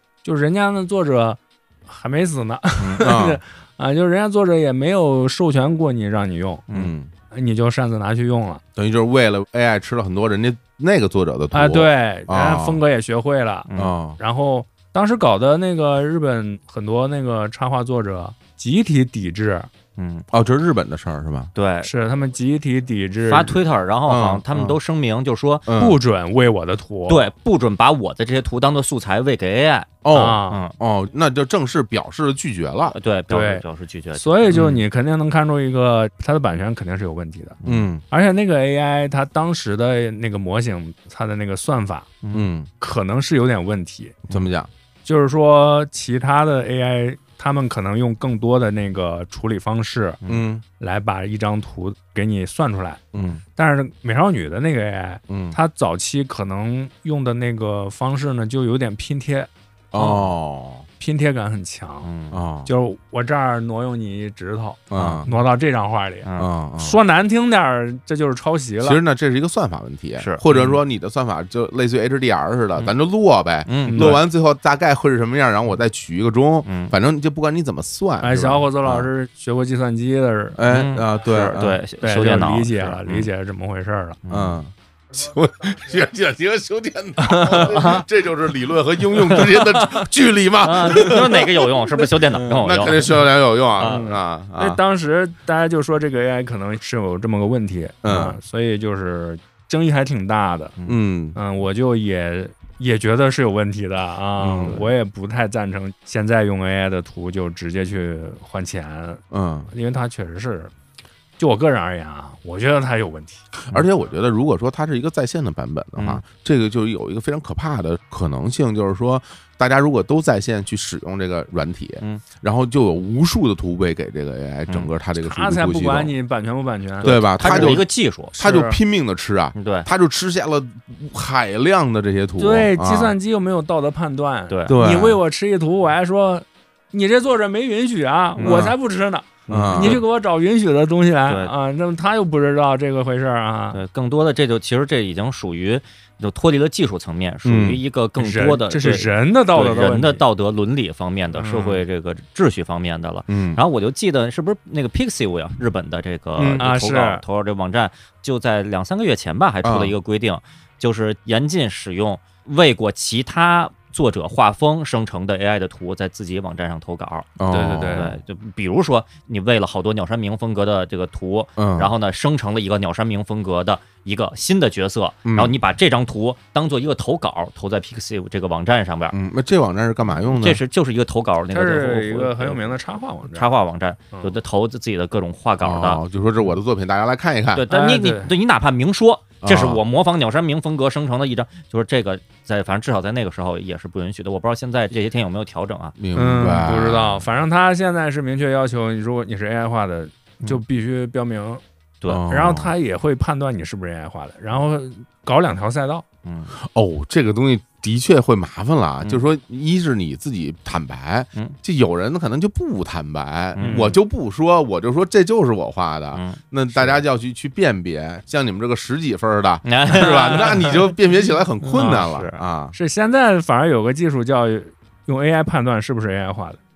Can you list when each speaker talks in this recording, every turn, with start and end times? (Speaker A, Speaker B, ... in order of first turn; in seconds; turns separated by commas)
Speaker A: 0.2-6.6, Speaker B: 2.8-3.1, Speaker C: 3.0-3.4, Speaker C: 6.7-7.1, Speaker A: 7.3-8.6, Speaker C: 8.8-12.8, Speaker A: 11.5-19.7, Speaker B: 13.7-13.9, Speaker C: 13.8-14.2, Speaker B: 20.0-20.2, Speaker C: 20.3-21.5, Speaker B: 21.6-21.9, Speaker A: 21.8-23.6, Speaker B: 23.2-25.7, Speaker C: 24.1-24.8, Speaker C: 25.6-26.0, Speaker A: 25.8-27.2, Speaker B: 27.1-30.7, Speaker C: 30.0-32.9, Speaker A: 30.1-30.6, Speaker B: 32.9-34.8, Speaker A: 33.3-33.6, Speaker A: 34.1-37.6, Speaker C: 37.6-38.0, Speaker A: 38.1-42.1, Speaker B: 42.2-42.5, Speaker C: 42.3-42.7, Speaker A: 42.8-44.2, Speaker C: 44.3-44.7, Speaker A: 45.0-50.2, Speaker C: 50.3-50.6, Speaker A: 50.8-53.0, Speaker C: 53.1-53.4, Speaker A: 53.5-59.5, Speaker C: 55.3-55.6, Speaker C: 59.9-60.9, Speaker A: 61.0-62.1, Speaker B: 62.0-62.4, Speaker C: 62.3-62.7, Speaker A: 62.6-66.3, Speaker C: 64.9-65.3, Speaker B: 64.9-65.2, Speaker C: 66.4-67.0, Speaker A: 66.8-69.0, Speaker C: 68.8-79.1, Speaker B: 70.2-70.4, Speaker B: 73.7-74.2, Speaker A: 73.8-74.2, Speaker B: 76.7-76.9, Speaker A: 78.2-80.6, Speaker C: 80.6-81.8, Speaker B: 80.7-83.3, Speaker A: 82.0-84.2, Speaker B: 84.2-84.6, Speaker C: 84.3-94.8, Speaker A: 87.2-88.0, Speaker B: 87.7-88.0, Speaker B: 89.3-89.6, Speaker B: 90.6-93.2, Speaker B: 93.8-94.1, Speaker A: 93.8-100.7, Speaker C: 98.0-98.4, Speaker C: 100.8-101.4, Speaker A: 101.3-110.7, Speaker C: 104.4-104.8, Speaker C: 109.3-109.7, Speaker A: 111.4-113.4, Speaker C: 113.6-126.1, Speaker B: 116.0-116.2, Speaker A: 125.2-127.8, Speaker B: 127.0-128.3, Speaker C: 127.0-133.1, Speaker A: 128.4-128.8, Speaker B: 129.6-129.9, Speaker A: 132.4-143.8, Speaker B: 134.5-134.8, Speaker C: 134.7-135.2, Speaker B: 138.4-138.7, Speaker C: 138.4-138.7, Speaker B: 139.5-140.0, Speaker C: 139.5-140.0, Speaker B: 141.3-141.5, Speaker B: 143.7-179.2, Speaker C: 147.4-147.8, Speaker A: 148.2-150.2, Speaker A: 151.3-151.8, Speaker C: 153.3-153.6, Speaker C: 156.4-156.6, Speaker A: 156.6-157.2, Speaker C: 159.6-159.9, Speaker C: 167.4-168.2, Speaker A: 167.5-168.1, Speaker C: 171.6-171.9, Speaker C: 175.2-175.5, Speaker C: 179.1-180.6, Speaker B: 180.3-186.0, Speaker A: 181.5-183.5, Speaker C: 185.6-187.6, Speaker B: 187.5-195.9, Speaker A: 187.7-188.3, Speaker C: 189.4-189.8, Speaker C: 196.0-197.2, Speaker A: 196.1-201.6, Speaker C: 202.1-202.7, Speaker A: 202.2-206.0, Speaker B: 206.2-206.5, Speaker C: 206.6-222.7, Speaker B: 213.6-213.9, Speaker A: 213.6-213.9, Speaker B: 216.1-216.4, Speaker B: 219.6-220.9, Speaker A: 221.7-222.1, Speaker B: 221.8-222.4, Speaker A: 222.7-226.6